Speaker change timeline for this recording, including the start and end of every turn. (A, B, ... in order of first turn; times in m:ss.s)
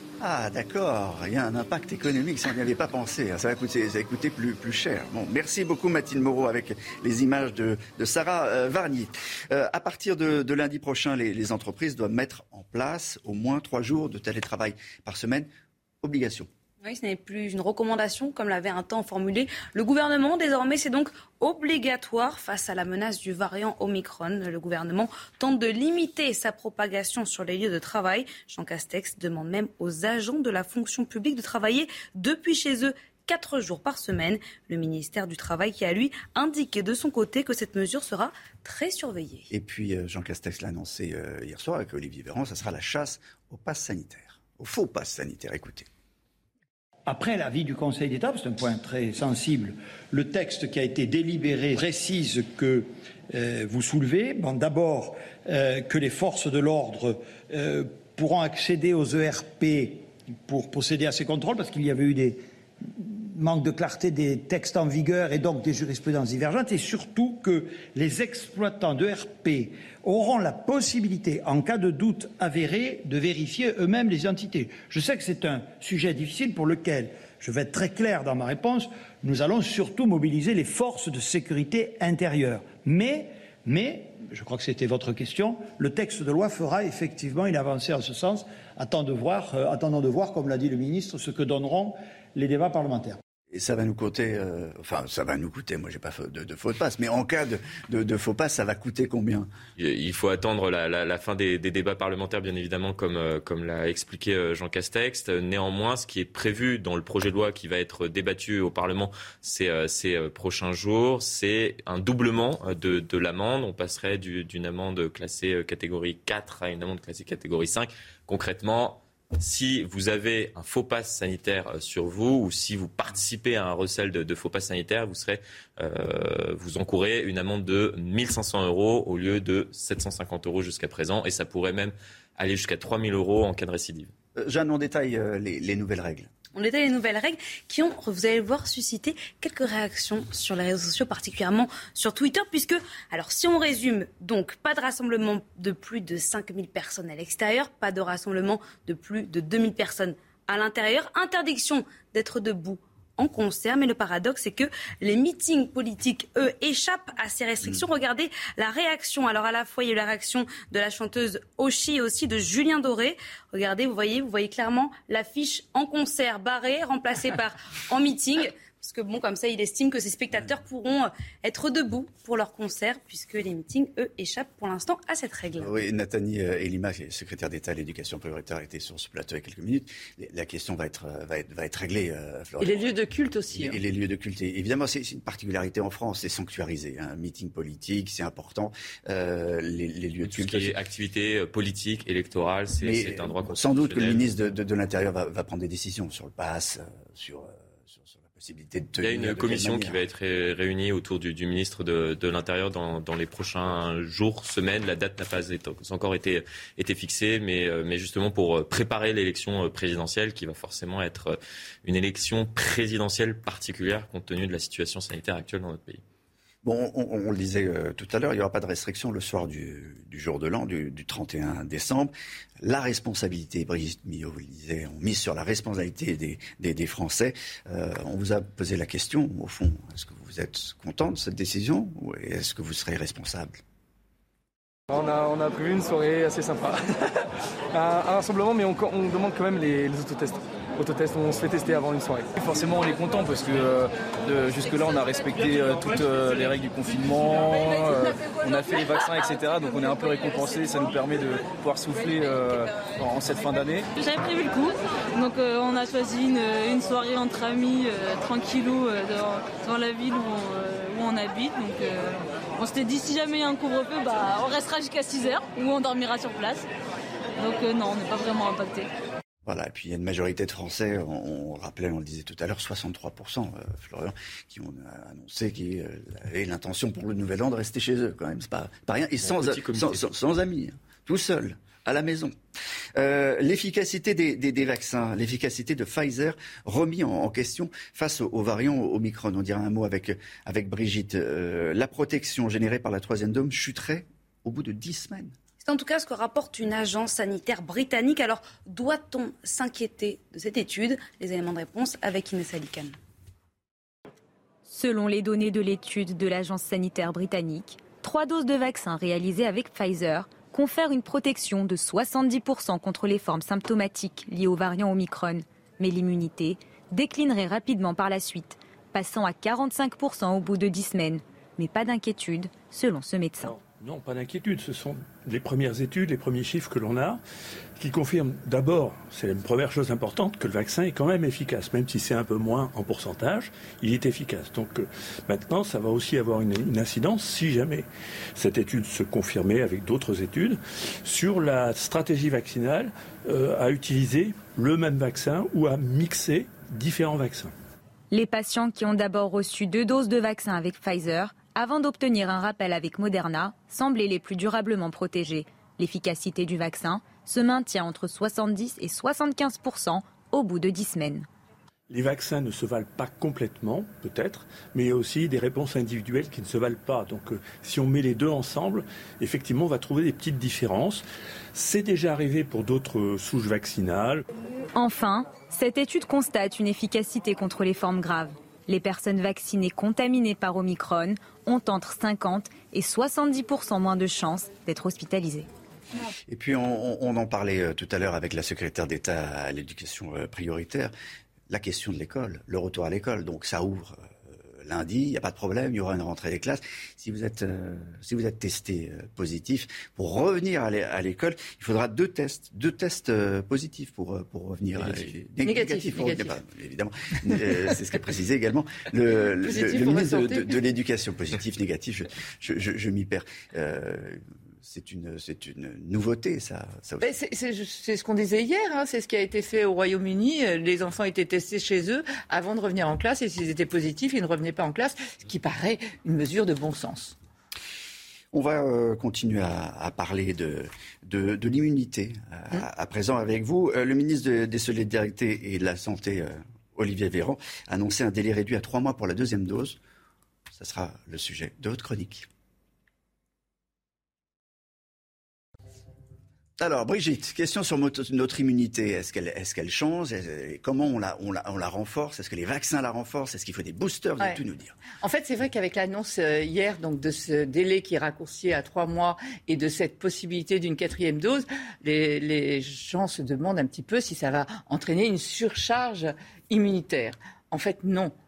0:00.2-0:15.5 A
0:16.0-0:16.5 A
0:16.8-0:39.5 B
0:39.5-0:45.9 A
0:47.1-1:33.2 C
1:33.5-1:39.5 A
1:39.8-2:14.1 D
2:14.4-2:16.3 A
2:16.5-2:55.8 B
2:55.6-3:02.9 A
3:02.6-3:03.8 E
3:03.5-3:10.7 A
3:10.2-3:14.3 D
3:12.8-3:20.0 A
3:19.0-3:36.0 D
3:36.6-3:53.6 A
3:54.9-3:57.1 F
3:57.7-4:13.9 F
4:14.0-4:26.7 G
4:27.4-4:28.9 G
4:29.4-4:42.4 A
4:39.2-4:40.1 D
4:43.0-4:55.3 A
4:55.6-5:03.0 B
5:04.6-5:23.6 H
5:23.5-5:27.2 I
5:27.8-5:47.5 I
5:48.1-6:01.3 H
6:01.9-6:14.2 I
6:14.8-6:25.5 H
6:26.3-6:30.9 A
6:31.5-6:57.1 A
6:44.8-6:45.1 D
6:45.4-6:46.4 E
6:49.4-6:50.5 E
6:57.0-7:07.2 E
7:08.3-7:19.8 A
7:20.5-7:22.3 A
7:26.6-7:34.8 A
7:34.9-7:48.1 E